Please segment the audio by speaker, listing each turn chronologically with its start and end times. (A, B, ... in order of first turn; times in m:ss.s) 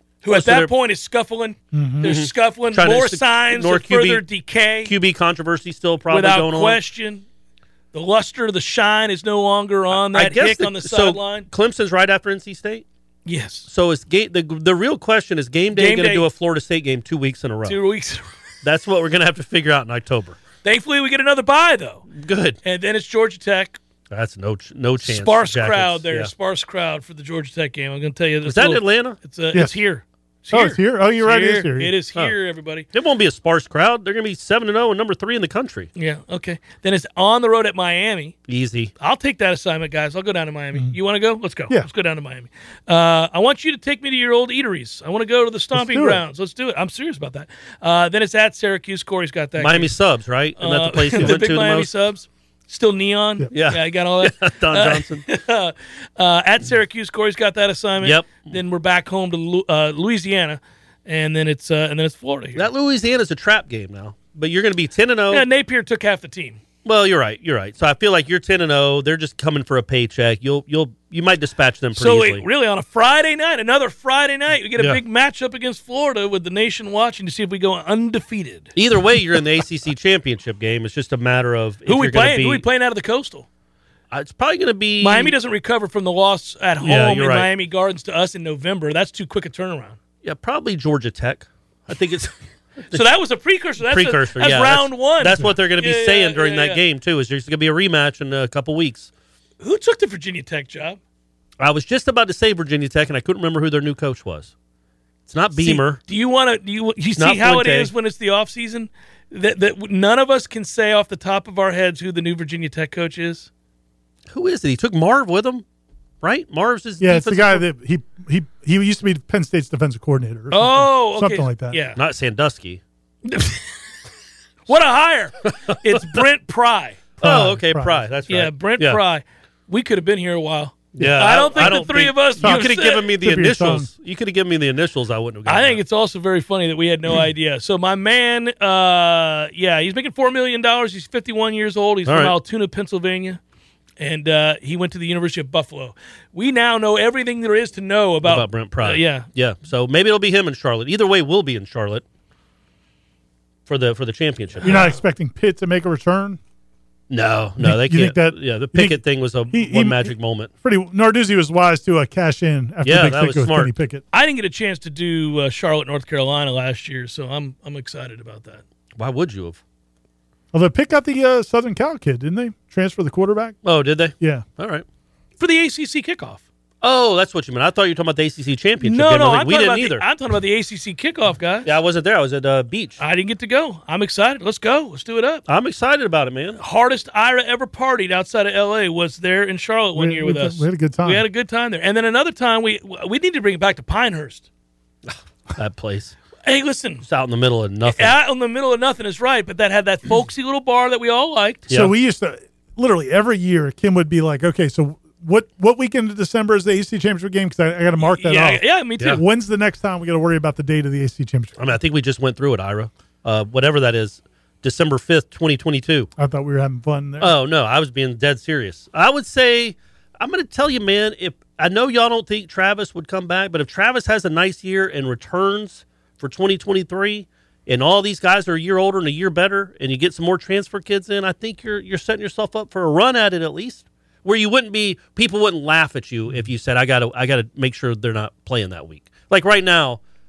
0:00.2-0:04.9 A
0:00.3-0:00.7 B
0:01.7-0:02.1 C
0:02.0-0:04.3 B
0:04.8-0:06.8 B
0:06.1-0:07.2 A
0:07.9-0:11.5 A
0:09.9-0:12.8 B
0:13.2-0:13.7 A
0:13.7-0:17.8 B
0:15.7-0:16.3 A
0:17.6-0:18.3 A
0:18.6-0:20.4 B
0:20.6-0:22.0 A
0:22.1-0:22.6 B
0:22.6-0:23.8 A
0:24.1-0:26.3 B
0:25.0-0:32.8 A
0:28.4-0:29.2 B
0:30.5-0:31.9 C
0:32.9-0:35.9 B
0:36.0-0:38.4 A
0:38.5-0:38.9 B
0:39.0-0:49.9 A
0:45.7-0:46.2 C
0:49.6-0:51.9 B
0:50.6-1:02.7 A
0:53.5-0:55.3 B
0:58.0-0:58.5 B
1:02.6-1:05.4 B
1:05.3-1:06.6 A
1:06.8-1:12.4 B
1:11.9-1:18.7 A
1:18.7-1:22.6 B
1:21.8-1:23.5 A
1:24.1-1:25.3 B
1:25.0-1:30.0 A
1:26.8-1:27.5 B
1:30.2-1:32.3 B
1:32.9-1:36.8 A
1:33.8-1:39.1 B
1:39.6-1:41.0 A
1:41.6-1:44.5 B
1:45.3-1:46.0 B
1:45.5-1:53.5 A
1:47.2-1:47.9 B
1:54.3-1:55.6 B
1:56.2-1:57.6 B
1:57.0-2:01.8 C
2:00.5-2:02.0 A
2:02.0-2:02.8 B
2:03.2-2:03.8 A
2:04.7-2:07.0 A
2:05.4-2:06.2 B
2:07.2-2:09.0 B
2:07.2-2:08.1 C
2:08.3-2:13.1 A
2:11.0-2:15.8 B
2:12.4-2:13.9 C
2:15.4-2:23.4 A
2:22.0-2:22.3 B
2:24.0-2:29.3 A
2:28.2-2:32.0 B
2:33.7-2:34.8 B
2:34.6-2:36.4 C
2:34.6-2:35.0 A
2:37.1-2:40.5 B
2:37.6-2:44.0 C
2:42.8-2:43.7 B
2:44.1-2:48.6 A
2:49.0-2:49.6 B
2:50.5-2:53.6 C
2:53.6-2:54.8 B
2:54.2-2:54.4 C
2:55.4-2:56.4 A
2:56.8-3:00.0 B
2:58.8-3:01.7 A
3:01.6-3:03.0 B
3:03.0-3:05.4 A
3:05.5-3:06.6 B
3:06.6-3:14.5 A
3:09.9-3:11.2 C
3:15.0-3:16.1 B
3:16.4-3:17.0 A
3:17.0-3:18.2 B
3:17.8-3:21.6 A
3:21.7-3:31.6 C
3:28.0-3:29.2 A
3:31.6-3:36.1 B
3:36.2-3:37.3 C
3:37.2-4:00.0 B